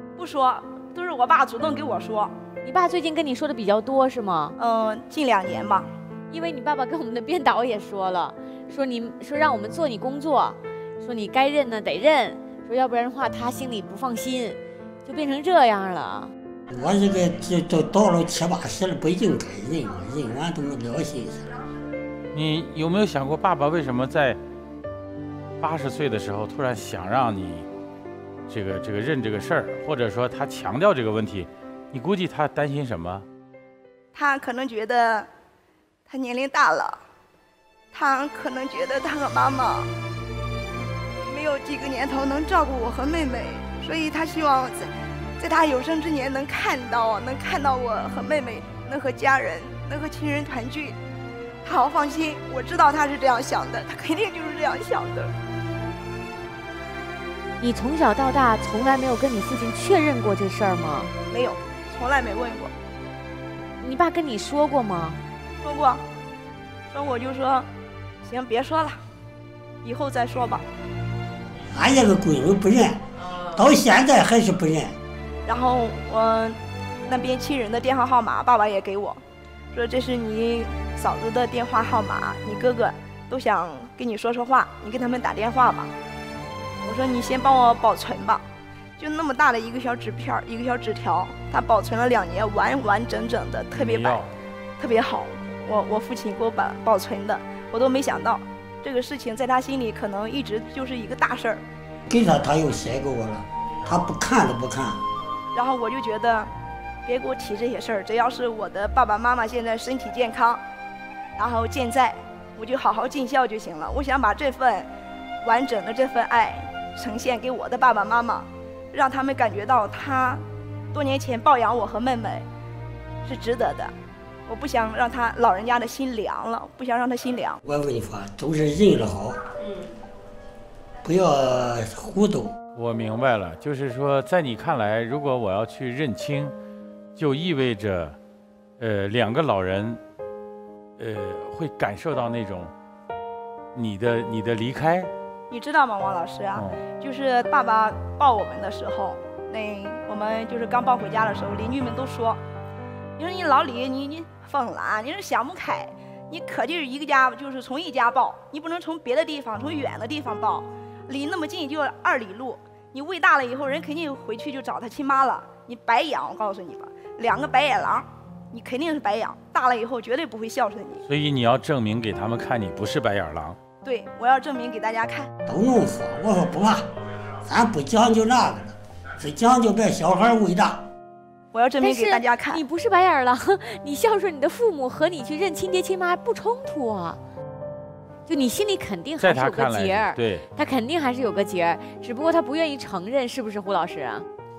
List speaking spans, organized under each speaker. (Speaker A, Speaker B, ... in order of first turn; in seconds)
Speaker A: 0.2-2.3, 4.6-5.9, 34.1-35.3, 36.1-37.0, 37.9-39.9, 41.3-51.0, 51.6-55.3, 61.3-62.7, 65.6-66.0, 66.9-67.7, 68.2-69.0, 69.8-70.6, 75.5-79.2, 79.7-85.9, 86.8-88.4, 89.0-94.3, 94.8-101.6, 105.5-106.5, 107.0-110.6, 111.4-114.9, 115.4-122.5, 123.2-123.9, 124.5-127.6, 145.5-152.4, 153.2-171.0, 173.8-175.3, 181.5-182.6
Speaker B: 2.6-4.5, 6.3-16.3, 57.6-61.1, 63.8-65.2, 181.8-187.2, 188.3-194.2
Speaker C: 16.7-21.5, 71.7-73.0, 73.5-75.0, 102.1-105.0, 127.6-129.4, 131.0-132.5, 175.5-176.9, 177.4-180.8
Speaker D: 22.3-24.4, 25.6-27.6, 28.5-33.2, 93.7-94.3, 132.8-136.5, 137.2-138.2, 138.8-140.0, 141.0-142.7, 143.7-145.1, 146.5-146.8, 171.1-173.6, 189.2-190.4